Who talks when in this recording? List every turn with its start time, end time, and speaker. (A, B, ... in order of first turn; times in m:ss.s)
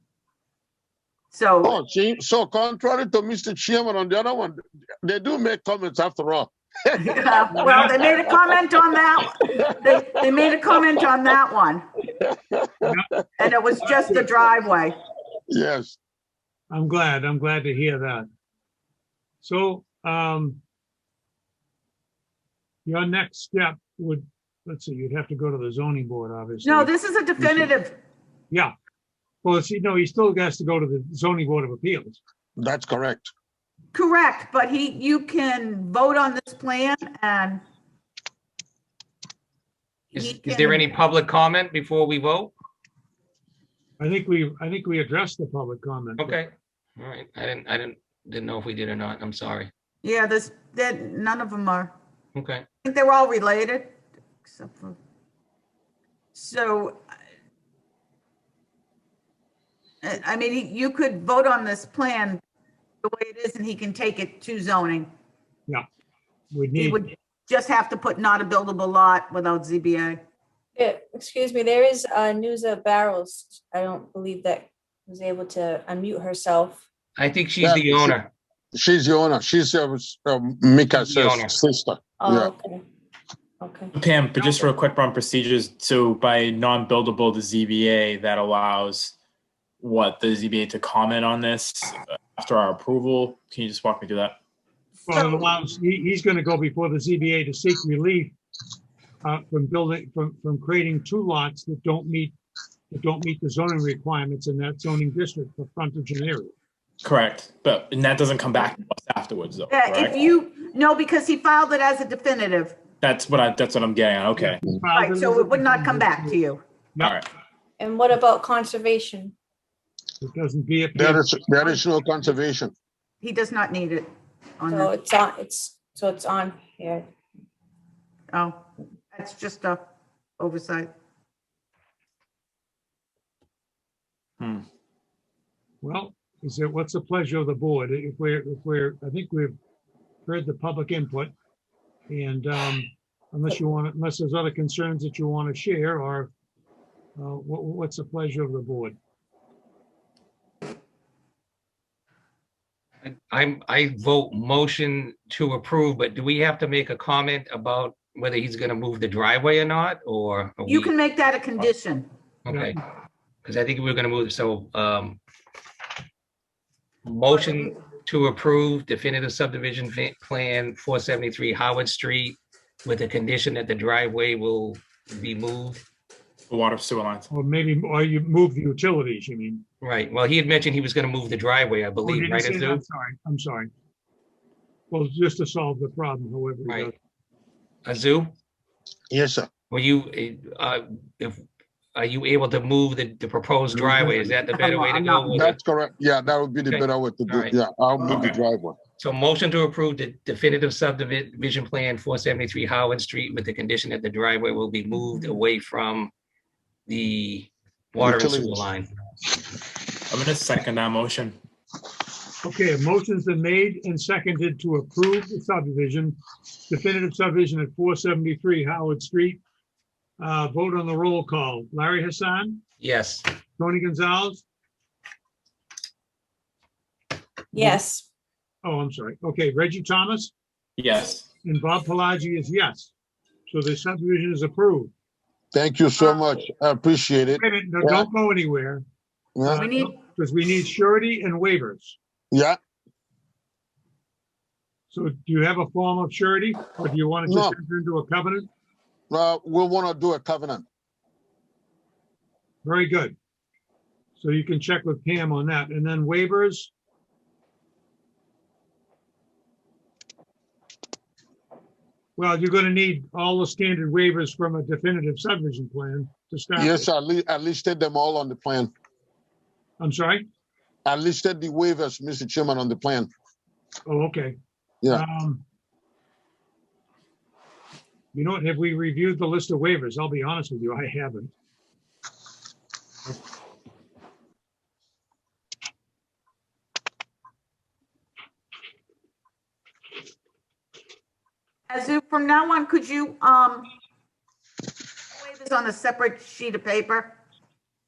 0:01.3-0:01.7 A
0:01.6-0:08.4 B
0:07.0-0:11.8 A
0:07.7-0:07.9 C
0:12.3-0:12.9 B
0:13.4-0:15.0 A
0:15.5-0:16.0 B
0:16.7-0:18.3 C
0:19.4-0:20.6 C
0:22.9-0:27.7 C
0:26.6-0:28.0 A
0:29.4-0:32.2 C
0:32.6-0:33.3 B
0:33.9-0:37.6 A
0:40.1-0:42.5 D
0:40.1-0:41.0 A
0:44.0-0:46.4 C
0:46.2-0:49.7 D
0:50.0-0:51.9 A
0:52.4-0:52.6 D
0:52.8-0:53.9 A
0:54.4-0:55.0 A
0:56.3-0:57.0 A
1:00.0-1:02.4 A
1:03.0-1:05.1 A
1:06.5-1:07.0 C
1:06.8-1:10.2 A
1:10.8-1:16.8 E
1:17.2-1:18.3 D
1:17.6-1:18.2 B
1:18.7-1:22.5 B
1:20.9-1:21.6 D
1:22.2-1:22.8 E
1:23.6-1:23.9 E
1:23.9-1:29.2 F
1:24.4-1:24.7 C
1:29.8-1:34.4 F
1:35.1-1:35.5 A
1:35.1-1:38.4 C
1:39.2-1:42.4 C
1:42.9-1:46.5 C
1:47.0-1:50.2 F
1:49.7-1:52.8 A
1:53.0-1:54.6 F
1:54.4-1:56.4 C
1:54.9-1:56.6 A
1:57.0-1:57.2 C
1:57.8-1:59.3 E
2:00.2-2:01.8 C
2:01.0-2:02.7 B
2:03.2-2:04.1 A
2:04.6-2:04.9 A
2:04.7-2:07.1 E
2:08.3-2:08.6 A
2:09.1-2:09.8 A
2:10.4-2:10.9 A
2:15.8-2:19.6 C
2:20.3-2:21.3 C
2:22.1-2:26.3 C
2:27.2-2:29.0 C
2:33.0-2:40.9 D
2:40.7-2:42.1 A
2:42.5-2:42.8 D
2:42.5-2:42.8 C
2:43.4-2:45.2 D
2:47.0-2:55.8 D
2:47.3-2:47.7 A
2:56.5-2:57.3 F
2:57.3-2:59.6 C
2:59.8-3:02.8 D
3:02.0-3:03.7 C
3:04.9-3:07.0 C
3:06.7-3:06.9 D
3:07.8-3:08.3 D
3:09.1-3:09.5 B
3:09.7-3:11.4 D
3:12.0-3:15.6 D
3:14.5-3:15.4 A
3:15.3-3:18.8 B
3:16.6-3:17.6 D
3:18.0-3:18.4 F
3:19.0-3:26.1 D
3:26.9-3:28.9 D
3:28.0-3:28.7 B
3:30.1-3:31.4 F
3:32.4-3:39.4 C
3:40.2-3:42.6 C
3:42.8-3:43.3 D
3:43.6-3:44.4 C
3:47.5-3:48.1 E
3:47.6-3:47.8 C
3:48.6-3:50.3 C
3:50.8-3:51.3 F
3:51.4-3:52.9 C
3:53.5-3:54.9 C
3:55.5-3:58.1 B
3:57.4-3:58.8 C
3:59.4-3:59.7 B
3:59.4-4:02.0 C
3:59.5-4:00.0 A
4:02.3-4:02.6 B
4:04.9-4:08.5 C
4:07.3-4:07.6 B
4:09.1-4:10.6 B
4:12.6-4:13.2 C
4:14.2-4:16.7 C
4:22.2-4:26.9 C
4:26.6-4:28.7 B
4:29.8-4:30.2 C
4:30.9-4:33.1 B
4:33.9-4:34.4 C
4:34.9-4:35.4 C
4:38.1-4:41.3 C
4:51.7-4:53.7 A
4:55.2-4:57.2 A